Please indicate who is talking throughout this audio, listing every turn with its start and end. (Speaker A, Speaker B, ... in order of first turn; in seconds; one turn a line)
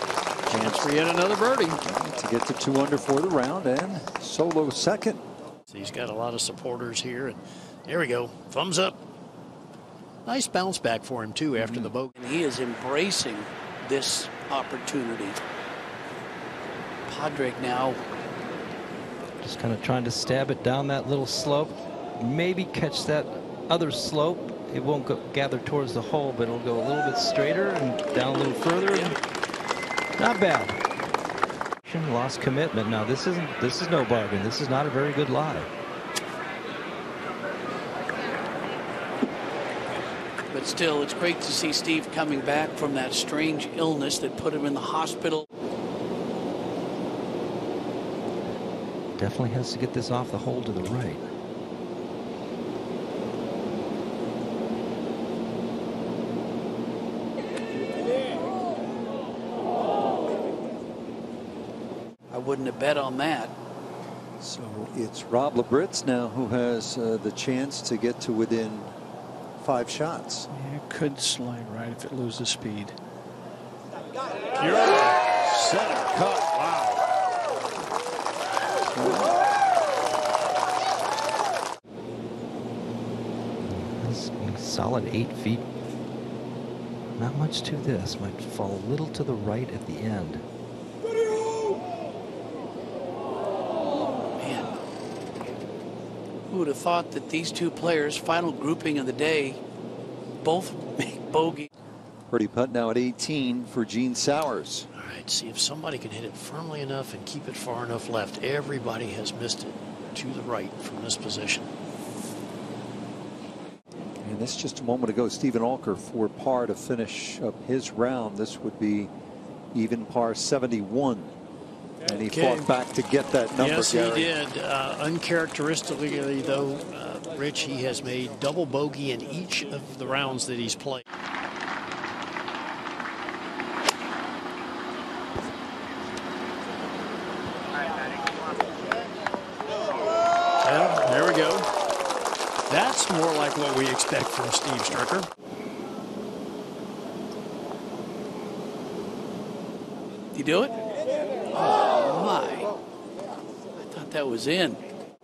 Speaker A: 0.5-1.8
Speaker B: 0.5-1.1
Speaker B: 1.8-5.2
Speaker A: 5.7-9.0
Speaker A: 10.3-12.1
Speaker C: 12.2-15.4
Speaker C: 17.1-18.0
Speaker D: 19.4-29.2
Speaker D: 30.2-30.8
Speaker D: 31.8-35.7
Speaker C: 40.5-45.5
Speaker D: 49.2-51.2
Speaker C: 62.3-63.5
Speaker B: 64.4-69.0
Speaker B: 69.6-70.5
Speaker E: 70.5-73.0
Speaker A: 74.6-77.0
Speaker B: 75.6-76.5
Speaker B: 79.0-79.3
Speaker D: 83.6-85.6
Speaker D: 87.2-90.5
Speaker C: 94.4-94.7
Speaker C: 96.5-99.6
Speaker C: 100.4-101.7
Speaker B: 102.3-104.9
Speaker A: 105.0-111.7
Speaker B: 114.2-119.1
Speaker B: 119.7-121.3
Speaker B: 122.1-124.3
Speaker A: 122.3-122.7
Speaker A: 123.6-131.0
Speaker A: 140.6-141.7
Speaker A: 142.7-145.3
Speaker C: 150.3-150.8
Speaker C: 151.5-152.7
Speaker C: 153.8-154.8